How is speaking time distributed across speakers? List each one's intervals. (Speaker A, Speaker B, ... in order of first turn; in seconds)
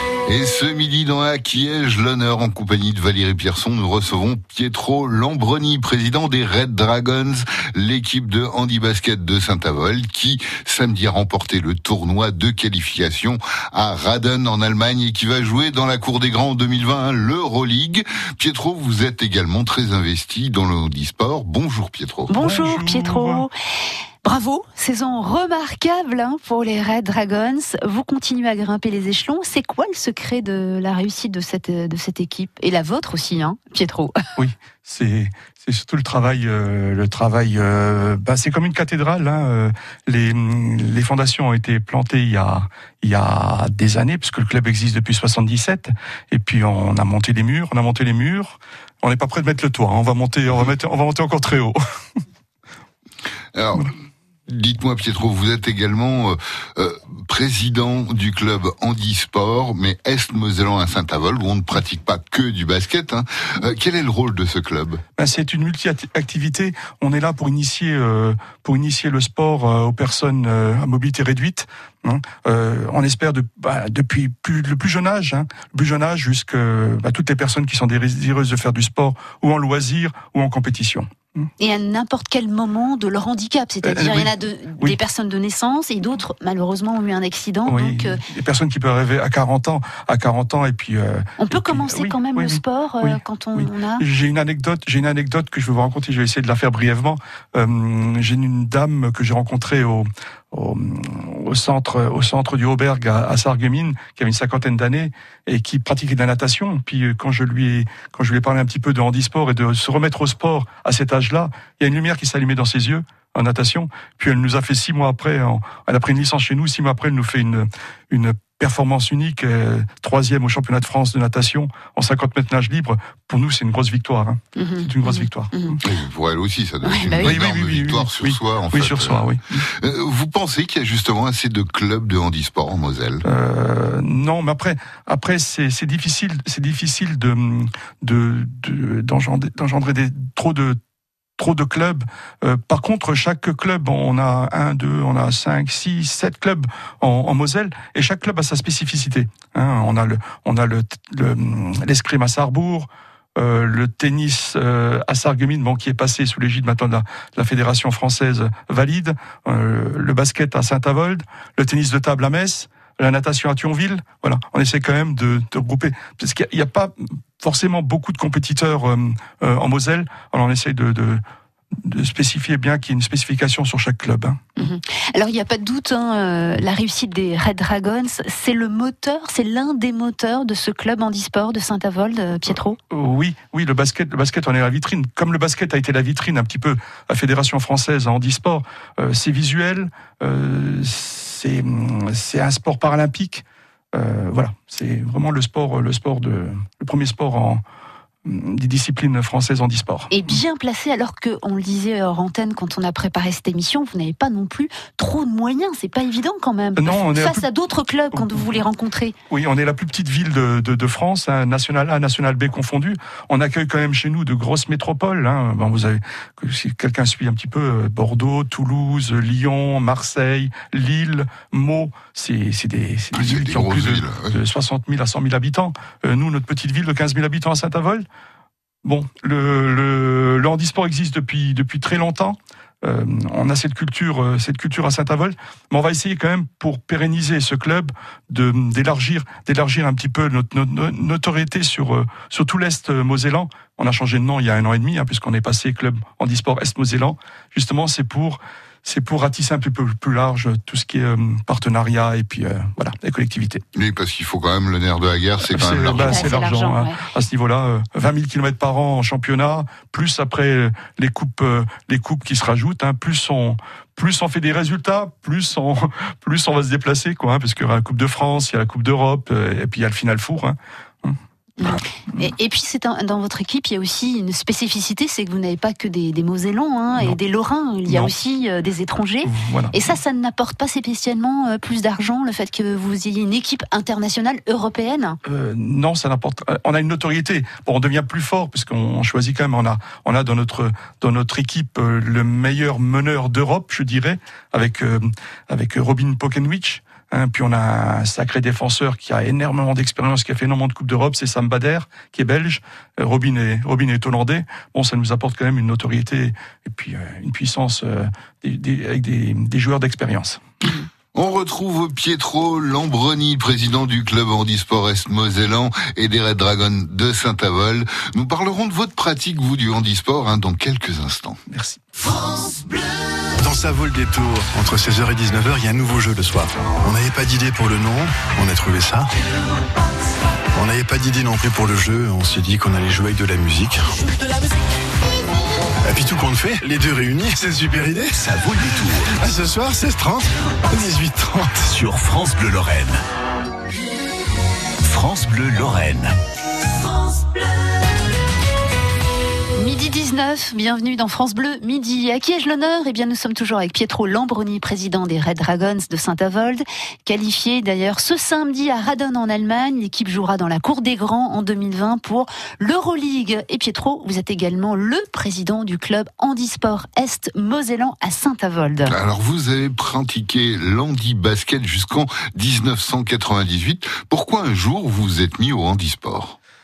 Speaker A: 0.2-22.4, 53.5-53.9, 54.5-65.0, 125.8-133.2, 223.1-224.4, 253.7-256.3, 311.1-321.4, 368.9-376.4
Speaker B: 22.3-23.5, 24.2-34.2, 81.6-88.2, 91.4-94.0, 124.5-125.8, 126.8-127.4, 174.6-182.8, 200.1-209.1, 255.9-257.0, 271.6-285.2, 349.5-368.9
Speaker C: 22.4-23.5, 34.4-51.8, 65.2-81.4, 83.8-85.0, 87.7-125.8, 127.2-129.7, 133.2-140.8, 141.4-171.2, 171.8-174.7, 182.9-197.6, 198.2-200.4, 206.8-207.4, 208.1-208.6, 209.3-228.1, 228.8-253.6, 255.4-272.3, 277.9-278.1, 279.2-279.9, 285.2-310.4, 321.5-321.8
Speaker D: 323.4-329.1, 330.5-334.3, 335.8-338.2, 339.1-341.7
Speaker E: 338.2-339.1, 341.7-343.0, 344.8-346.2